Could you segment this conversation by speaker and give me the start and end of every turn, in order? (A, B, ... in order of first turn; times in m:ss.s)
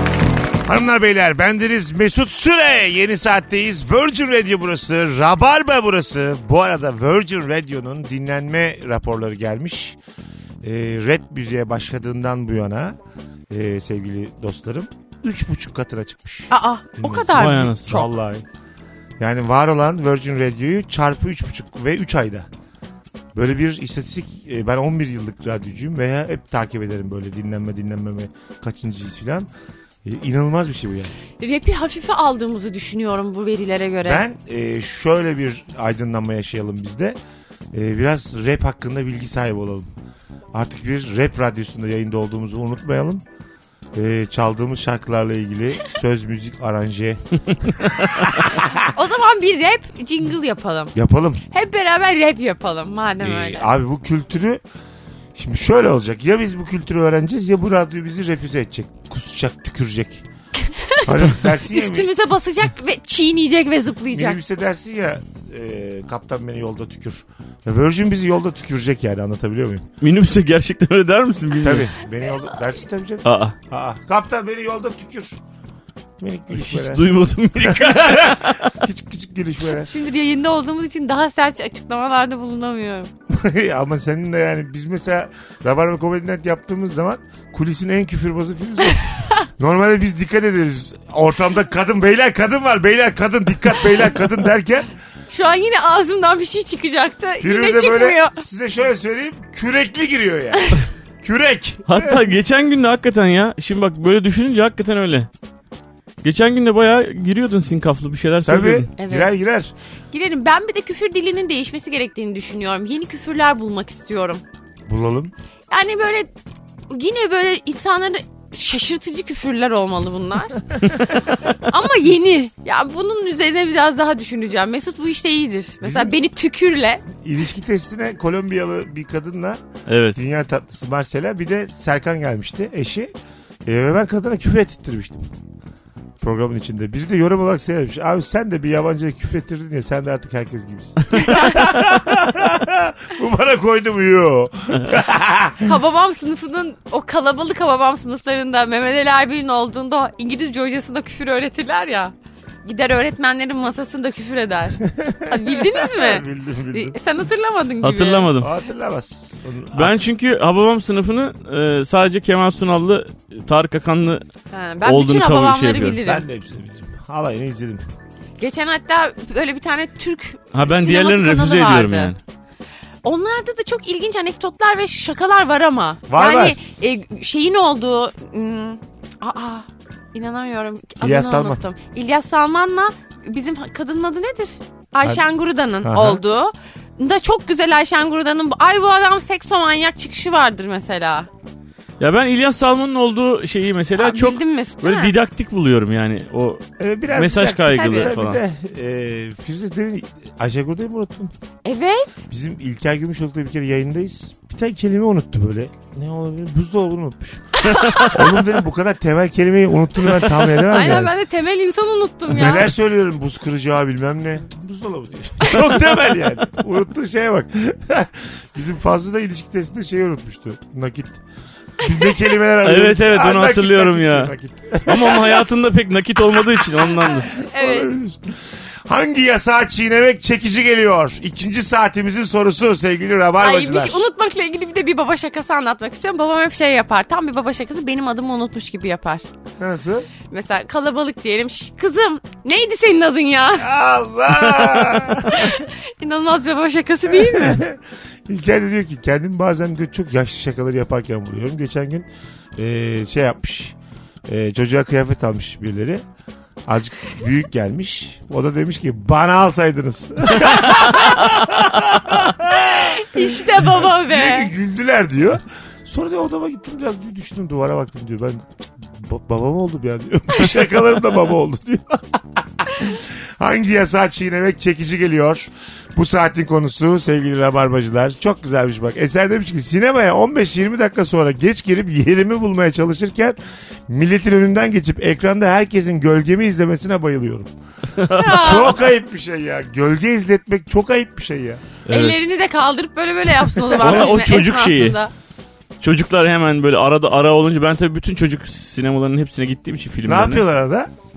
0:00.7-0:10.0 A
0:10.6-0:13.0 A
0:13.5-0:18.4 A
0:16.5-0:18.1 B
0:17.3-0:18.0 C
0:19.2-0:22.5 A
0:23.4-0:29.5 A
0:30.0-0:31.1 A
0:31.4-0:34.2 B
0:34.0-0:37.2 A
0:37.7-0:39.9 A
0:40.5-0:43.2 A
0:43.9-0:48.9 A
0:48.8-0:51.0 B
0:51.0-0:51.4 A
0:51.5-0:53.7 B
0:53.2-0:54.6 A
0:55.4-1:00.2 A
1:00.6-1:04.4 B
1:01.0-1:02.1 A
1:04.1-1:09.9 A
1:10.0-1:11.9 C
1:11.6-1:15.4 A
1:13.2-1:13.6 C
1:16.2-1:17.1 A
1:16.5-1:18.8 C
1:17.6-1:19.9 A
1:19.8-1:23.1 B
1:23.3-1:34.9 A
1:35.3-1:38.4 B
1:37.4-1:42.3 A
1:41.9-1:45.3 C
1:46.2-1:48.9 C
1:48.4-1:49.7 A
1:49.0-1:49.3 B
1:50.1-1:54.4 B
1:54.9-1:55.3 A
1:55.7-1:56.3 B
1:56.9-2:00.6 B
2:01.5-2:07.0 B
2:05.8-2:06.2 A
2:07.2-2:09.6 A
2:09.9-2:10.2 C
2:10.2-2:13.1 A
2:13.7-2:15.2 A
2:16.2-2:25.8 A
2:21.2-2:21.5 B
2:25.6-2:32.1 B
2:32.6-2:38.3 B
2:34.8-2:37.0 A
2:37.8-2:38.5 C
2:38.4-2:40.0 A
2:39.7-2:44.2 C
2:44.5-2:46.2 B
2:44.8-2:46.0 C
2:46.0-2:47.8 A
2:48.4-2:52.1 B
2:50.5-2:52.2 C
2:53.0-3:11.3 B
2:56.1-2:56.6 A
3:01.0-3:01.6 A
3:05.8-3:06.2 A
3:12.0-3:18.4 C
3:14.0-3:15.1 B
3:16.8-3:21.3 A
3:17.6-3:18.1 B
3:21.6-3:22.2 B
3:22.3-3:31.1 A
3:27.6-3:28.2 B
3:30.5-3:32.7 B
3:32.3-3:41.2 A
3:41.8-3:45.4 A
3:42.6-3:44.3 C
3:44.9-3:47.3 C
3:47.2-3:47.9 B
3:47.6-3:54.0 A
3:53.4-3:59.3 B
3:59.6-4:00.1 A
4:00.3-4:03.7 B
4:03.6-4:05.7 A
4:05.2-4:07.7 B
4:07.1-4:13.8 A
4:14.3-4:16.0 A
4:16.7-4:43.4 A
4:22.6-4:24.5 B
4:43.9-4:47.5 A
4:48.0-4:48.7 C
4:48.1-4:48.9 B
4:48.2-4:51.6 A
4:51.9-4:52.2 C
4:51.9-4:55.1 B
4:53.8-4:55.0 C
4:55.8-5:00.4 C
5:00.0-5:00.9 A